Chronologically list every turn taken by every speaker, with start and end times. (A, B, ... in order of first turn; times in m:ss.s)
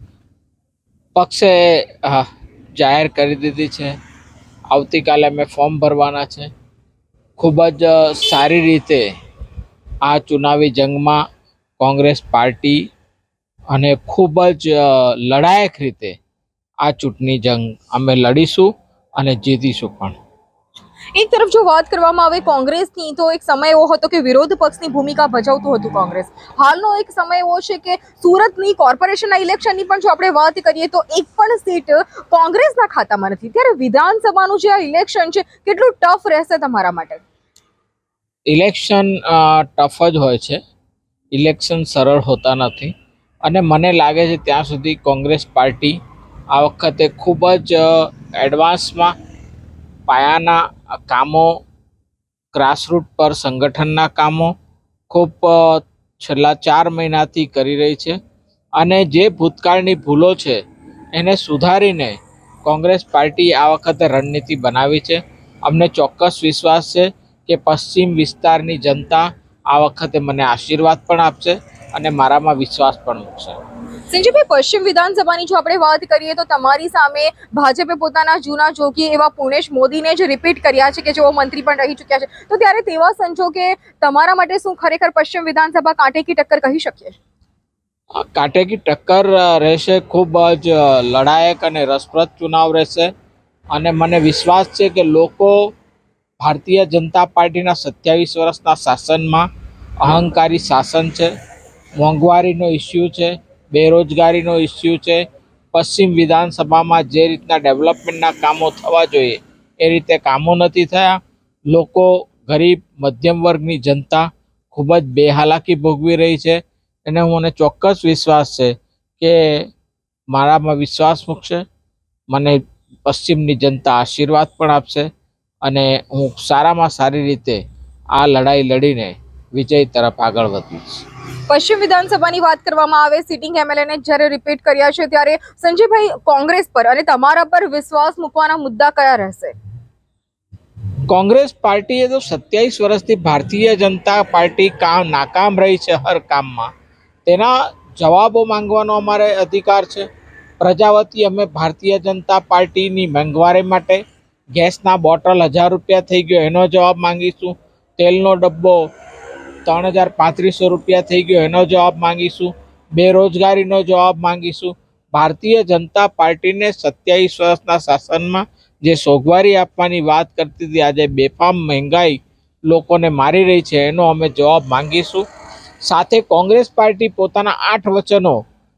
0:01.2-0:04.0 A
0:04.7-0:06.5 A
0:07.4-0:09.0 A
0:10.0-0:11.2 A
0:11.8-0:12.8 A
0:13.7-0:16.2 A
0:16.8-0:20.2 A
0:21.2-0:37.2 B
0:38.5-0:40.6 A
0:41.3-0:42.9 A
0:43.4-0:46.0 A
0:46.5-0:49.1 A
0:50.1-0:51.5 A
0:52.5-0:54.5 A
0:55.1-0:58.2 A
0:58.8-1:00.6 A
1:01.2-1:13.6 A
1:14.1-1:27.2 B
1:28.2-1:33.1 A
1:33.7-1:35.6 A
1:36.4-1:39.5 A
1:40.0-1:41.3 A
1:42.0-1:51.2 A
1:51.7-1:59.6 A
2:00.3-2:01.6 A
2:02.3-2:05.1 A
2:05.6-2:07.6 A
2:08.1-2:11.0 A
2:11.5-2:19.5 B
2:21.1-2:26.7 A
2:27.3-2:30.0 A
2:30.6-2:34.0 A
2:34.5-2:38.8 A
2:39.6-2:55.2 A
2:55.8-2:58.4 A